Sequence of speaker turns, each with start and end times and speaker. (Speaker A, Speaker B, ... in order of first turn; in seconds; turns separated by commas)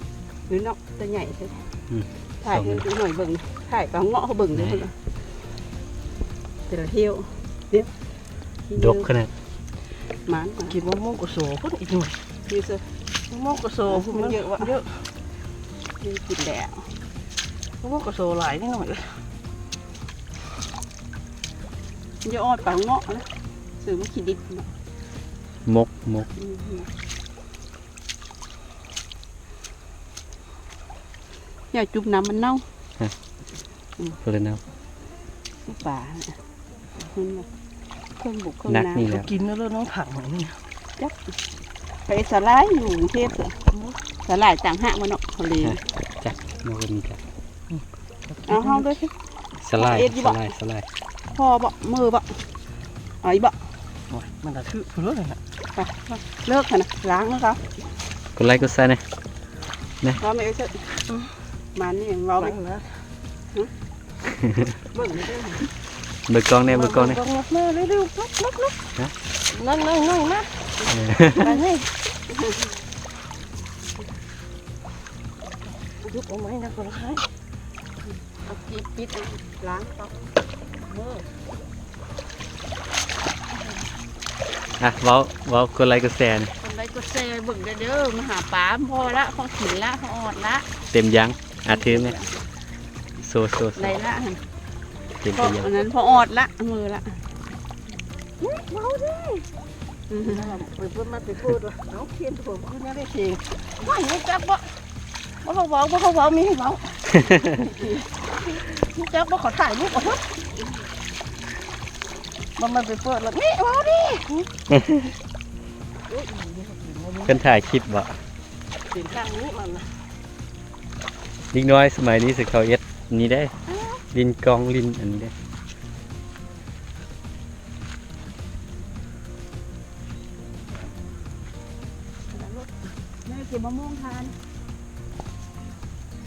Speaker A: 0.5-1.7, Speaker B: 1.9-2.8, Speaker A: 2.4-4.9, Speaker B: 4.5-4.8, Speaker A: 6.7-7.9, Speaker A: 8.7-9.1, Speaker B: 8.8-9.3, Speaker A: 10.1-10.8, Speaker C: 10.7-12.2, Speaker A: 12.4-12.8, Speaker C: 13.3-15.1, Speaker A: 13.9-14.7, Speaker A: 16.0-16.9, Speaker C: 17.8-19.2, Speaker A: 22.2-24.7, Speaker B: 25.6-26.3, Speaker A: 26.3-26.9, Speaker A: 31.7-32.6, Speaker B: 34.2-34.6, Speaker A: 35.6-36.4, Speaker A: 37.1-37.5, Speaker A: 38.1-39.1, Speaker B: 38.7-39.3, Speaker C: 39.1-40.6, Speaker A: 42.0-43.6, Speaker C: 43.7-44.0, Speaker A: 44.2-45.8, Speaker B: 45.6-47.2, Speaker C: 47.7-48.9, Speaker A: 48.5-49.1, Speaker B: 49.6-50.9, Speaker A: 49.8-50.5, Speaker A: 51.3-52.5, Speaker A: 53.2-53.6, Speaker C: 54.1-55.4, Speaker A: 55.7-57.6, Speaker B: 58.4-59.0, Speaker A: 60.2-60.9, Speaker C: 61.1-61.4, Speaker A: 61.7-62.5, Speaker C: 62.4-63.1, Speaker A: 64.9-65.6, Speaker B: 66.3-67.2, Speaker C: 66.7-68.8, Speaker C: 69.5-70.7, Speaker B: 70.9-71.5, Speaker C: 71.3-71.9, Speaker A: 72.3-72.6, Speaker C: 76.1-77.3, Speaker A: 78.3-80.2, Speaker A: 80.8-81.3, Speaker B: 84.8-86.5, Speaker A: 86.6-90.7, Speaker B: 90.9-92.2, Speaker A: 91.7-92.4, Speaker B: 93.2-94.0, Speaker A: 93.8-94.4, Speaker B: 95.2-95.7, Speaker A: 95.3-97.2, Speaker C: 95.8-96.2, Speaker C: 98.4-99.5, Speaker A: 100.1-100.5, Speaker C: 100.3-104.8, Speaker C: 105.4-107.1, Speaker A: 107.6-107.8, Speaker C: 108.5-110.3, Speaker C: 112.5-114.5, Speaker C: 116.1-117.4, Speaker B: 117.2-118.1, Speaker C: 118.8-120.0, Speaker B: 121.5-123.5, Speaker A: 123.7-124.0, Speaker B: 124.1-125.3, Speaker A: 132.3-134.3